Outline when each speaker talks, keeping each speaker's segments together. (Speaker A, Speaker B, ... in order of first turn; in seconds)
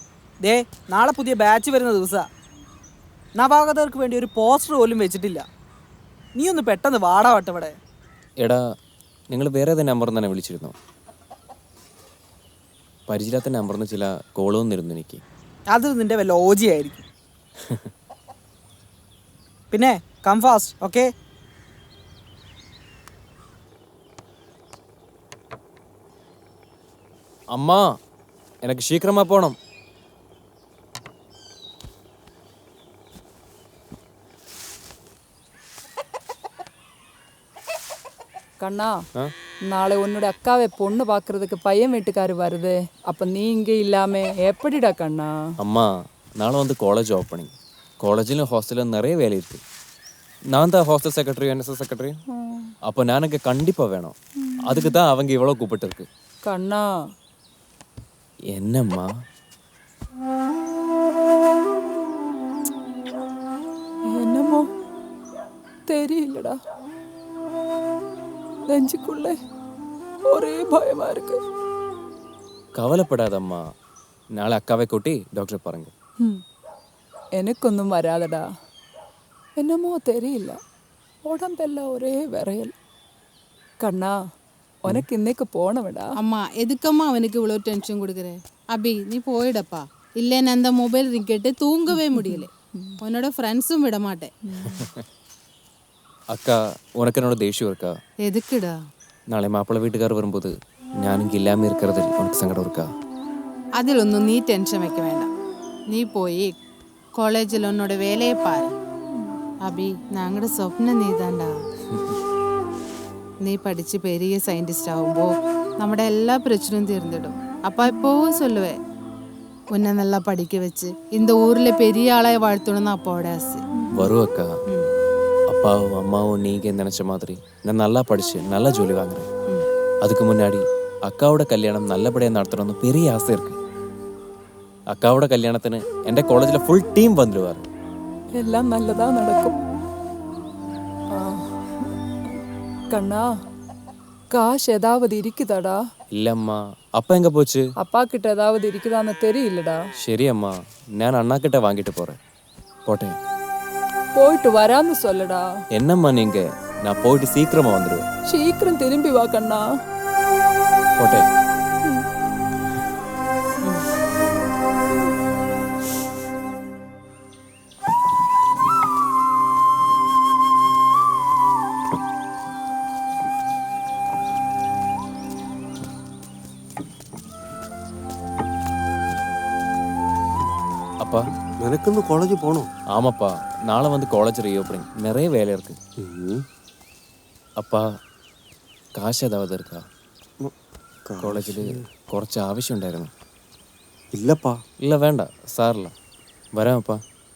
Speaker A: 0.5-2.2, 3.4-5.4, 6.4-7.8, 15.7-17.0, 19.7-21.0
Speaker B: 9.3-10.7, 13.1-15.2, 27.5-27.8, 28.6-29.6, 45.6-47.5, 48.0-49.6, 50.5-52.2, 52.9-56.1, 58.5-59.1, 72.8-73.6, 74.4-75.9, 94.8-95.0, 96.3-97.9, 99.3-102.9, 123.9-124.5, 125.5-129.3, 130.0-133.6, 134.9-137.7, 146.1-147.7, 150.0-152.2, 152.9-153.2, 155.8-158.1, 161.0-161.2, 182.9-185.8, 189.0-189.8, 191.2-193.1, 194.8-195.9, 196.6-197.0
Speaker C: 38.6-38.9, 39.7-45.4, 52.3-52.7, 56.5-56.9, 64.1-64.7, 65.9-66.5, 68.7-69.3, 70.3-71.4, 77.4-78.4, 79.6-80.6, 81.2-82.7, 83.8-84.1, 84.8-86.1, 92.1-93.0, 94.5-94.9, 138.4-139.6, 141.1-141.5, 142.9-143.2, 144.3-145.8, 147.8-149.8, 154.2-155.4, 158.3-159.6
Speaker D: 86.2-94.3, 98.2-98.8, 103.8-105.3, 105.9-106.5, 107.2-108.7, 109.6-111.5, 113.4-118.8, 119.8-123.6
Speaker E: 181.6-182.7, 186.0-186.4, 191.1-191.6, 194.1-194.6